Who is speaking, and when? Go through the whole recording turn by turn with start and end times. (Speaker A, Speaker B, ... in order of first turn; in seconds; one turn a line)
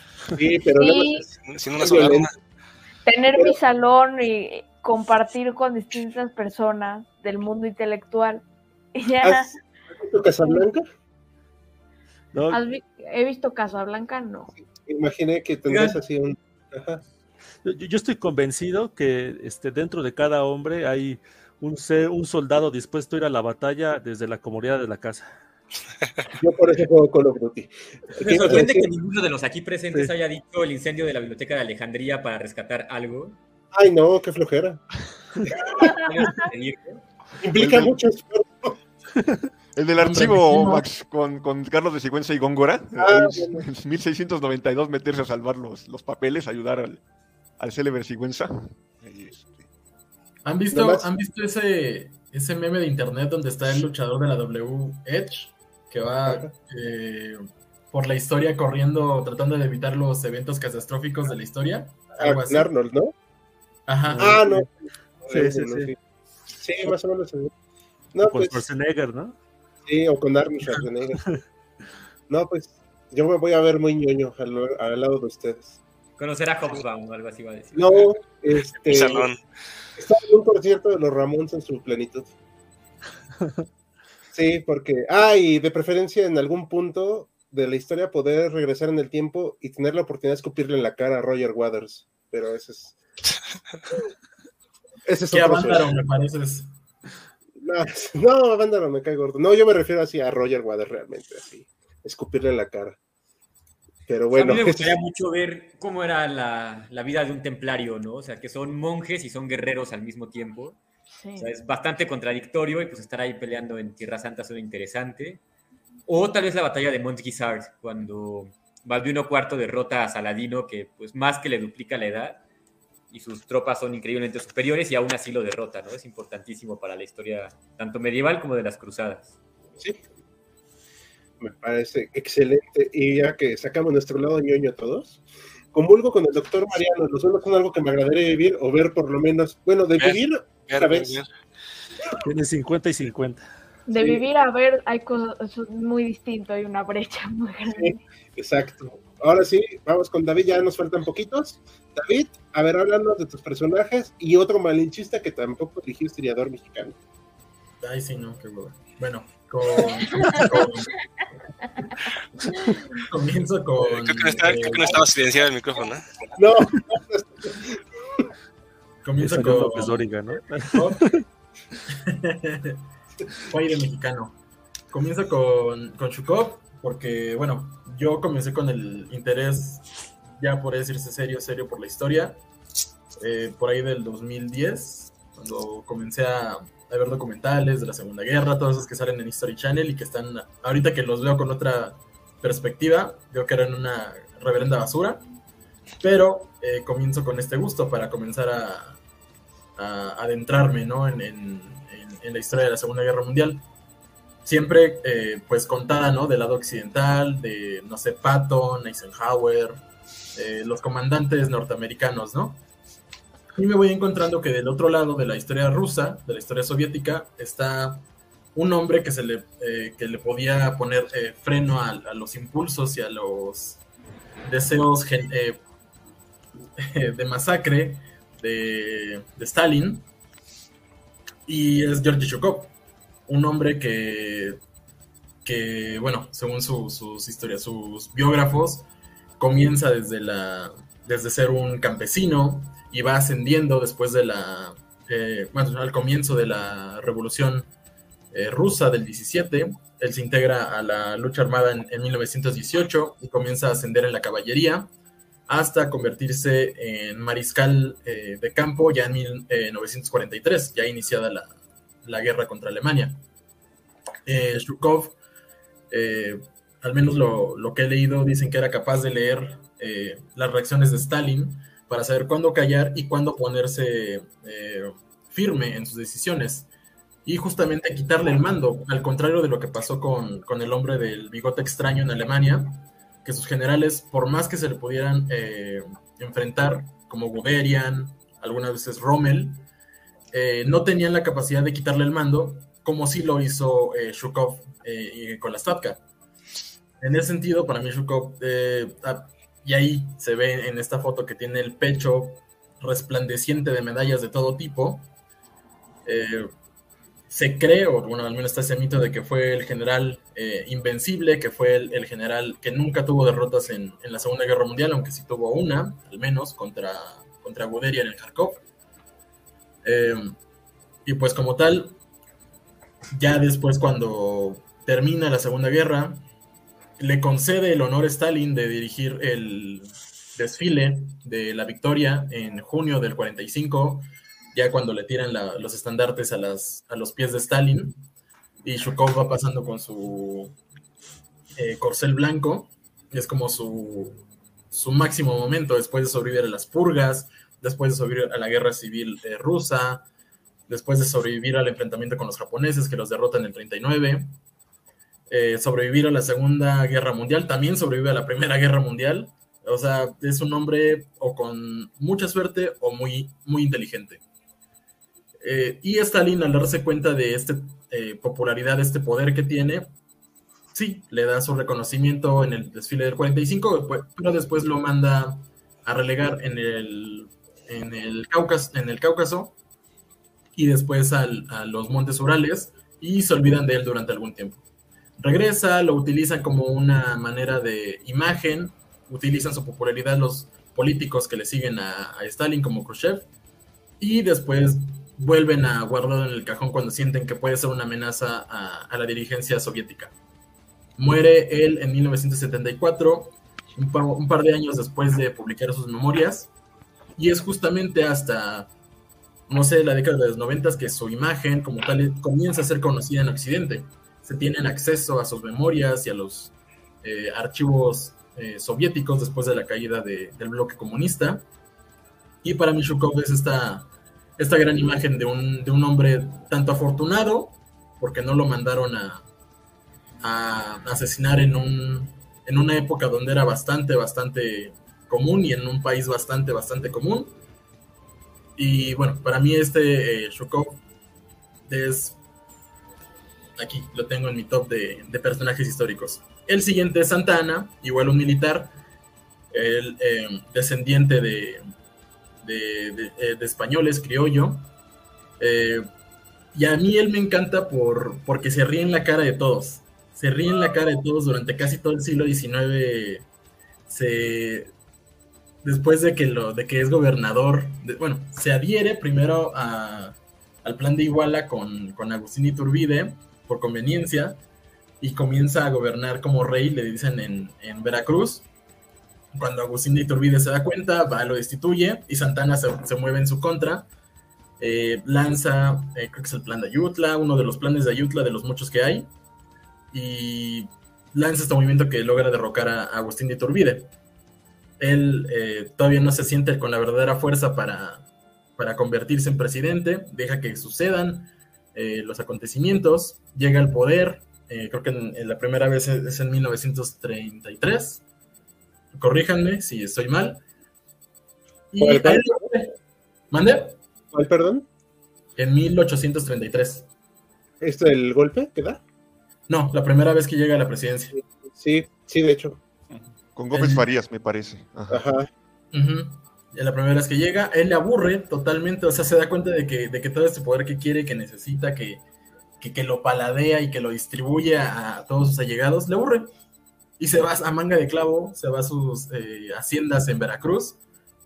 Speaker A: 0.3-2.3
Speaker B: 0.8-1.3
Speaker C: 1.4-2.3
Speaker B: 3.0-8.4
Speaker B: 8.9-9.5
Speaker A: 9.2-10.8
Speaker D: 12.3-12.6
Speaker B: 12.5-14.5
Speaker A: 14.6-17.0
Speaker D: 17.6-25.3
Speaker A: 26.4-28.9
Speaker E: 28.2-33.4
Speaker A: 33.7-34.8
Speaker E: 35.7-37.0
Speaker B: 35.8-36.5
Speaker A: 37.4-38.8
Speaker F: 37.6-37.9
Speaker F: 39.8-47.0
Speaker G: 40.0-40.8
Speaker A: 43.0-43.7
Speaker F: 47.6-49.7
Speaker G: 50.5-62.7
Speaker A: 50.7-51.1
Speaker A: 62.2-63.1
Speaker G: 63.9-64.6
Speaker D: 64.1-64.4
Speaker A: 64.2-66.0
Speaker G: 65.3-65.9
Speaker D: 65.3-65.9
Speaker A: 66.5-67.5
Speaker A: 68.1-68.7
Speaker D: 68.2-69.4
Speaker A: 69.9-71.2
Speaker A: 72.3-75.8
Speaker E: 76.2-78.1
Speaker A: 77.7-79.3
Speaker C: 78.9-79.4
Speaker A: 80.0-82.3
Speaker A: 84.3-93.0
Speaker A: 95.1-96.0
Speaker G: 95.3-96.7
Speaker A: 97.6-103.0
Speaker A: 104.1-105.0
Speaker E: 104.3-110.8
Speaker B: 111.2-111.5
Speaker E: 111.4-115.4
Speaker E: 116.1-122.4
Speaker E: 123.1-129.3
Speaker A: 131.4-135.2
Speaker A: 135.7-141.2
Speaker C: 140.0-141.3
Speaker D: 142.1-143.4
Speaker B: 143.9-148.0
Speaker A: 144.0-144.2
Speaker A: 147.7-156.9
Speaker G: 157.8-160.9
Speaker G: 163.0-165.1
Speaker C: 163.8-166.1
Speaker A: 166.4-168.2
Speaker G: 169.0-170.1
Speaker D: 169.2-171.2
Speaker G: 170.7-171.2
Speaker G: 172.1-172.8
Speaker G: 173.4-174.3
Speaker G: 174.9-182.4
Speaker G: 183.1-195.2
Speaker G: 196.0-199.0
Speaker G: 199.8-203.6
Speaker G: 204.4-209.8
Speaker G: 210.3-212.6
Speaker G: 213.6-223.8
Speaker G: 224.5-225.6
Speaker G: 226.8-230.1
Speaker G: 231.5-232.7
Speaker G: 233.3-234.6
Speaker G: 235.4-238.9
Speaker G: 239.4-247.7
Speaker G: 248.3-254.9
Speaker G: 255.5-263.2
Speaker G: 264.3-265.2
Speaker G: 265.9-276.7
Speaker G: 277.2-289.6
Speaker G: 290.3-296.0
Speaker G: 297.0-305.1
Speaker G: 306.1-306.5
Speaker G: 307.3-318.6
Speaker G: 319.8-320.4
Speaker G: 321.1-322.0
Speaker G: 323.1-326.2
Speaker G: 327.0-338.0
Speaker G: 338.6-340.6
Speaker G: 341.6-350.1
Speaker G: 350.7-354.3
Speaker G: 355.3-364.2
Speaker G: 365.4-369.9
Speaker G: 370.7-379.6
Speaker G: 380.6-384.6
Speaker G: 385.2-393.3
Speaker G: 394.0-400.1
Speaker G: 401.0-406.5
Speaker G: 407.2-408.7
Speaker G: 409.5-421.4
Speaker G: 422.4-429.2
Speaker G: 430.2-437.4
Speaker G: 438.6-440.8
Speaker G: 441.7-442.2
Speaker G: 443.6-448.7
Speaker G: 449.5-451.6
Speaker G: 452.4-454.7
Speaker G: 455.4-455.9
Speaker G: 456.5-463.3
Speaker G: 463.9-464.7
Speaker G: 465.6-474.4
Speaker G: 475.0-478.5
Speaker G: 479.3-483.9
Speaker G: 484.6-489.1
Speaker G: 489.9-493.9
Speaker G: 494.8-498.1
Speaker G: 498.6-508.0
Speaker G: 508.9-510.4
Speaker G: 511.7-512.8
Speaker A: 511.8-512.5
Speaker G: 513.3-513.8
Speaker A: 514.1-514.7
Speaker G: 515.4-516.9
Speaker A: 517.6-518.8
Speaker G: 519.5-521.1
Speaker A: 521.1-522.6
Speaker F: 522.9-525.0
Speaker G: 523.5-523.9
Speaker A: 524.9-525.3
Speaker G: 525.7-532.0
Speaker G: 532.6-536.3
Speaker G: 537.0-540.8